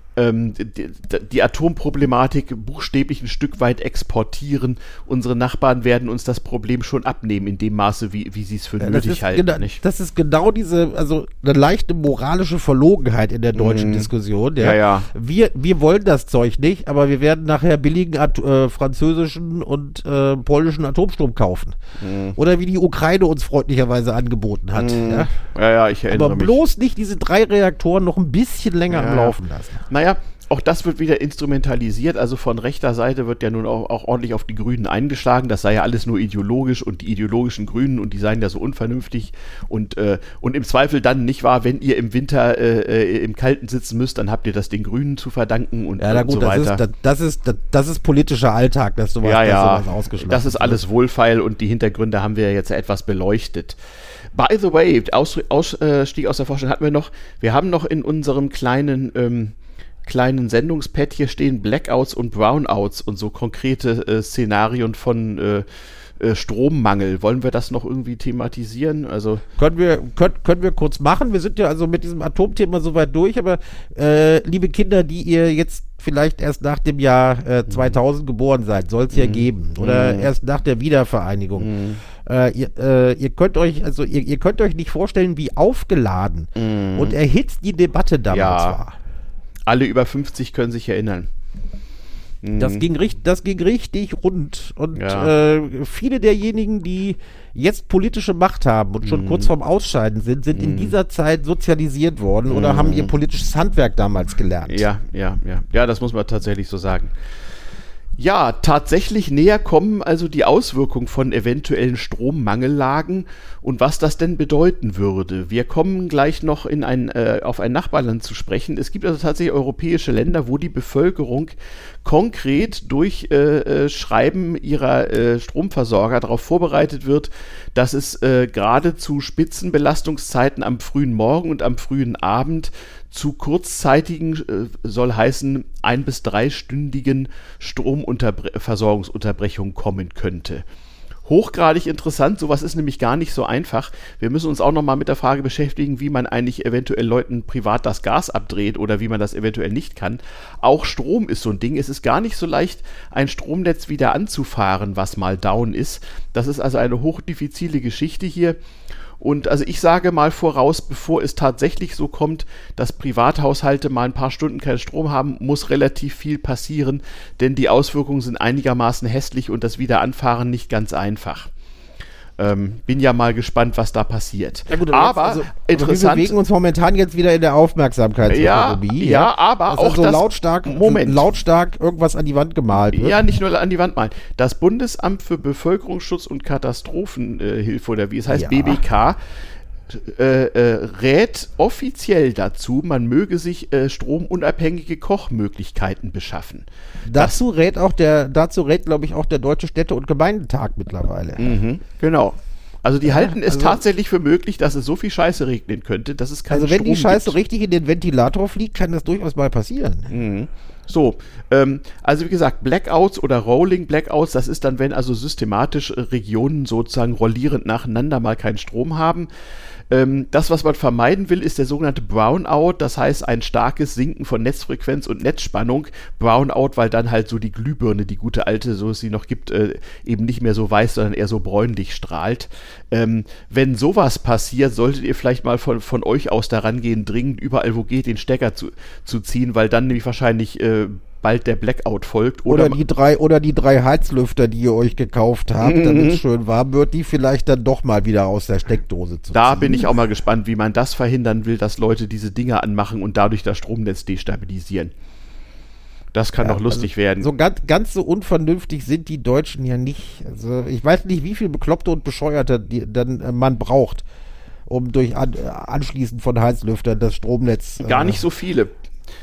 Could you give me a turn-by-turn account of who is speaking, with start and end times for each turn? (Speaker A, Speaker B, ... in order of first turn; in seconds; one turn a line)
Speaker A: 0.2-9.8
Speaker B: 8.8-21.8
Speaker A: 13.6-15.1
Speaker A: 22.0-22.4
Speaker B: 22.4-25.3
Speaker A: 24.8-26.6
Speaker B: 26.1-29.8
Speaker A: 28.9-29.4
Speaker A: 29.9-46.8
Speaker B: 46.0-50.8
Speaker A: 49.2-53.8
Speaker A: 54.3-65.7
Speaker A: 66.2-69.4
Speaker B: 69.6-89.0
Speaker A: 79.1-80.3
Speaker A: 81.6-82.0
Speaker A: 86.6-87.2
Speaker A: 88.3-88.8
Speaker A: 89.7-91.3
Speaker A: 92.4-92.9
Speaker B: 92.5-104.9
Speaker A: 95.0-95.3
Speaker A: 99.0-99.5
Speaker A: 100.5-101.0
Speaker A: 102.5-103.1
Speaker A: 104.7-107.1
Speaker A: 108.2-140.7
Speaker A: 141.3-158.6
Speaker A: 159.2-171.5
Speaker A: 172.4-176.3
Speaker B: 174.7-183.2
Speaker A: 178.3-181.2
Speaker A: 182.9-189.2
Speaker B: 188.3-188.8
Speaker A: 189.9-197.4
Speaker B: 197.1-201.6
Speaker A: 201.4-207.4
Speaker B: 203.0-203.8
Speaker B: 206.5-210.1
Speaker A: 210.1-219.3
Speaker A: 219.9-242.8
Speaker B: 242.5-249.9
Speaker A: 245.6-246.2
Speaker A: 249.3-254.9
Speaker A: 256.1-257.3
Speaker B: 256.4-264.0
Speaker B: 264.7-268.2
Speaker A: 267.8-268.7